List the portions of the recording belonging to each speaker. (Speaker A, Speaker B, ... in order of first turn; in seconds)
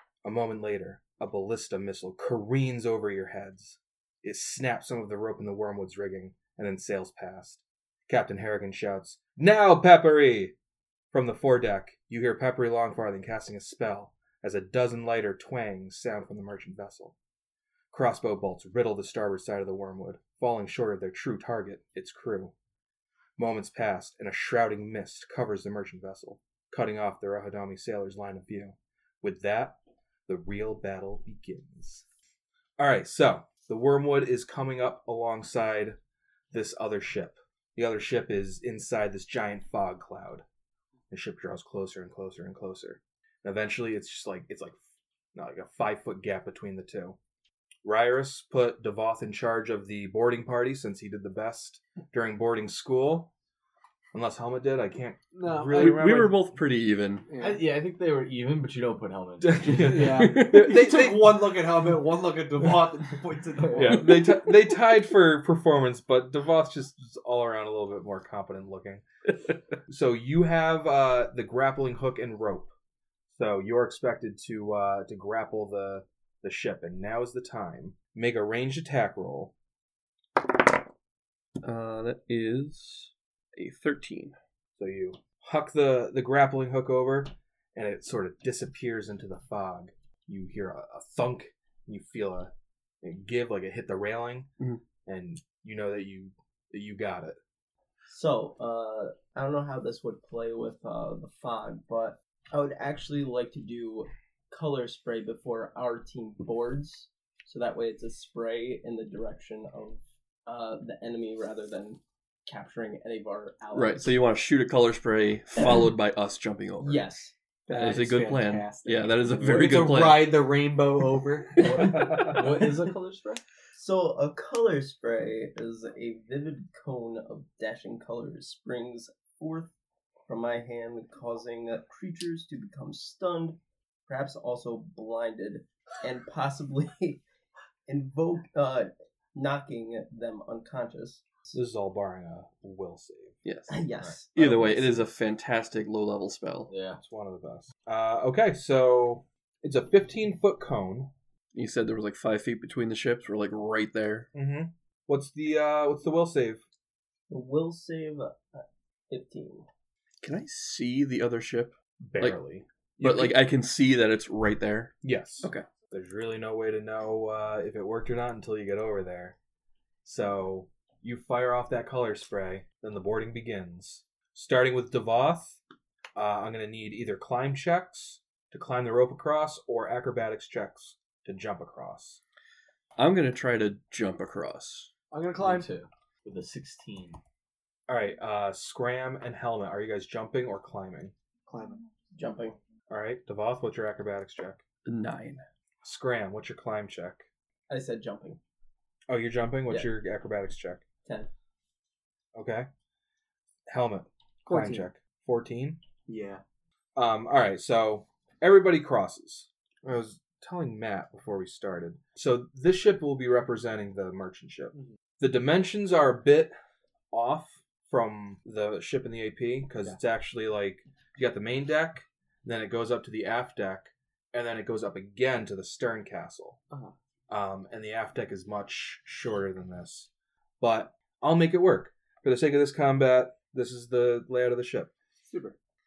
Speaker A: 0.2-10.6, 11.1-17.1, 17.9-22.5, 23.4-32.1, 32.8-36.0, 36.5-40.4, 41.1-44.8, 45.3-47.2, 47.8-53.3, 54.1-56.4, 59.4-61.2, 63.8-69.0, 69.9-72.7, 73.3-79.5, 84.8-94.5, 95.1-97.4, 122.0-122.4, 141.5-143.4, 144.4-144.9, 147.0-151.1, 154.3-156.6, 162.0-163.4, 165.0-169.4, 170.0-175.6, 176.2-182.2, 187.9-191.1, 192.9-194.6, 195.8-197.3, 199.1-200.8, 202.3-202.7, 203.7-205.8, 207.0-216.5, 217.1-226.6, 227.3-234.9
Speaker B: 55.3-56.0, 57.3-57.6, 59.8-64.2, 117.7-122.1, 185.1-185.7, 191.5-191.8, 204.5-204.9, 206.1-206.4, 235.2-235.6
Speaker C: 55.7-57.3, 60.1-60.8, 81.6-84.3, 113.7-117.1, 117.7-120.5, 143.4-146.7, 151.5-154.3, 160.2-162.4, 163.0-165.7, 183.0-184.9, 194.8-195.4
Speaker D: 57.4-60.3, 63.7-64.0, 121.6-123.4, 146.7-147.0, 185.4-187.2
Speaker E: 98.1-114.2, 115.6-115.9, 116.8-117.3, 121.8-122.0, 123.7-129.7, 130.3-137.2, 137.9-141.5, 143.7-144.4, 157.3-159.7, 192.2-192.6, 197.7-198.4